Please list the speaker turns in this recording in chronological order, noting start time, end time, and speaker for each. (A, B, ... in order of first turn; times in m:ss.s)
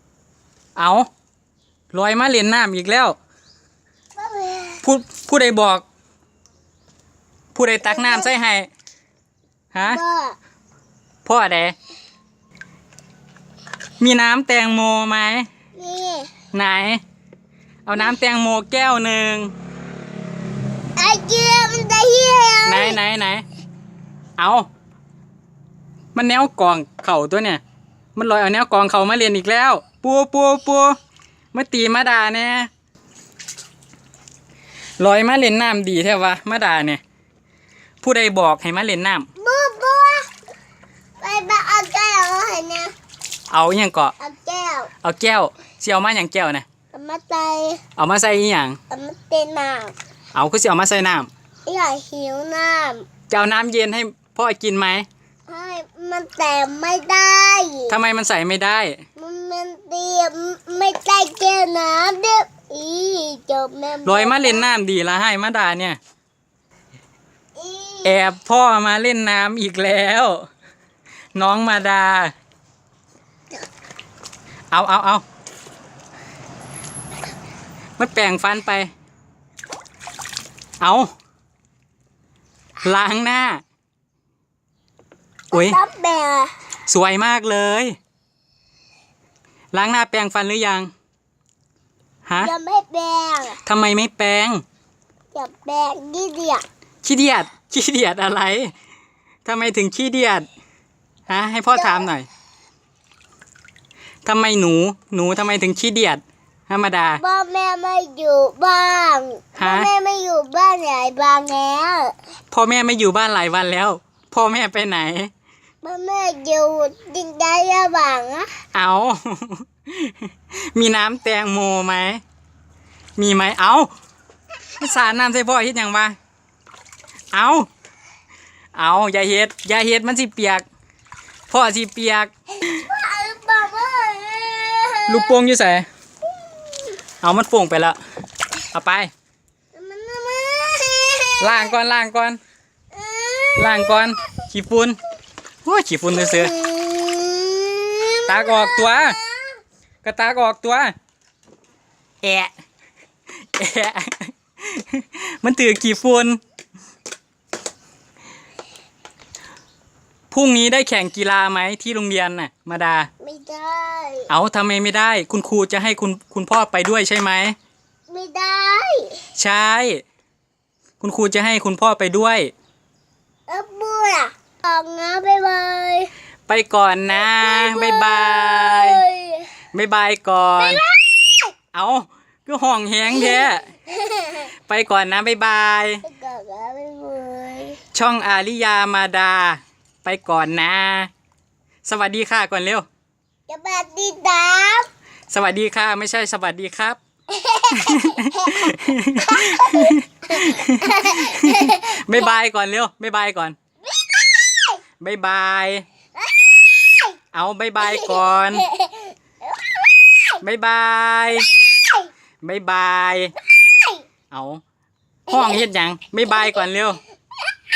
0:00.8-0:01.1 A
0:01.9-0:03.2 A
0:04.2-0:04.8 B
0:04.8-0:05.8 A
0:07.5-0:08.7 A
0:07.8-0:08.3 B
0:09.7-0:10.0 A
0:09.8-0:10.4 B
0:11.2-0:11.8 A
0:14.0-0:15.5 A
0:15.8-0:16.3 B
0:16.5-0:17.0 A
0:17.9-0:19.5 A
0:21.0-0:23.0 B
0:22.7-0:23.4 A
0:24.4-0:24.7 A
0:26.2-0:27.6 A
0:28.2-0:31.0 A
0:31.5-0:32.7 A
0:35.0-0:37.0 A
0:38.0-0:39.3 A
0:39.4-0:40.3 B
0:41.2-0:42.9 B
0:43.5-0:44.1 A
0:44.2-0:44.9 B
0:45.0-0:46.7 A
0:46.9-0:47.8 B
0:48.0-0:48.8 A
0:48.9-0:50.0 B
0:50.4-0:51.3 A
0:51.7-0:53.1 B
0:53.3-0:55.1 A
0:55.5-0:58.0 B
0:57.9-0:59.0 A
0:59.2-1:04.7 B
1:04.0-1:06.0 A
1:07.6-1:08.2 B
1:08.0-1:10.5 A
1:11.4-1:12.3 A
1:14.7-1:15.2 A
1:18.0-1:18.9 A
1:20.8-1:21.1 A
1:22.8-1:23.6 A
1:25.5-1:25.8 A
1:25.5-1:26.5 B
1:26.9-1:28.0 A
1:29.7-1:30.9 A
1:32.3-1:32.5 A
1:32.4-1:33.6 B
1:33.6-1:34.6 A
1:35.3-1:36.6 B
1:37.0-1:38.7 A
1:39.4-1:40.5 A
1:41.3-1:42.3 A
1:41.7-1:42.1 B
1:44.3-1:47.2 A
1:47.2-1:52.2 B
1:49.6-1:49.9 A
1:52.5-1:55.3 A
1:55.8-1:58.5 B
1:58.7-2:02.2 A
2:03.2-2:03.9 A
2:04.8-2:06.2 A
2:07.3-2:07.7 A
2:08.8-2:10.6 A
2:11.5-2:12.3 A
2:12.7-2:15.4 B
2:15.1-2:15.9 A
2:16.4-2:17.0 B
2:17.2-2:18.0 A
2:18.7-2:19.1 A
2:19.7-2:21.8 B
2:21.4-2:22.4 A
2:22.9-2:24.2 B
2:23.6-2:25.0 A
2:25.6-2:26.5 A
2:26.1-2:29.6 B
2:28.3-2:29.2 A
2:30.0-2:30.9 A
2:32.2-2:32.5 A
2:33.6-2:36.4 A
2:40.3-2:43.1 A
2:43.2-2:44.3 B
2:44.3-2:47.6 A
2:48.1-2:49.2 B
2:49.4-2:50.0 A
2:51.0-2:52.5 A
2:53.5-2:56.1 B
2:56.5-2:59.0 A
2:57.2-2:59.5 B
2:59.7-3:00.8 A
3:00.6-3:01.5 B
3:01.7-3:03.7 A
3:03.1-3:04.5 B
3:04.7-3:06.0 A
3:06.0-3:07.8 B
3:07.9-3:11.1 A
3:11.8-3:12.9 A
3:13.5-3:14.9 B
3:15.3-3:17.0 A
3:17.3-3:22.2 B
3:17.7-3:23.6 A
3:24.0-3:24.8 B
3:25.0-3:25.9 A
3:26.4-3:27.1 B
3:27.3-3:28.7 A
3:27.8-3:30.4 B
3:30.4-3:31.5 A
3:32.4-3:33.3 A
3:34.3-3:34.6 A
3:35.3-3:37.0 A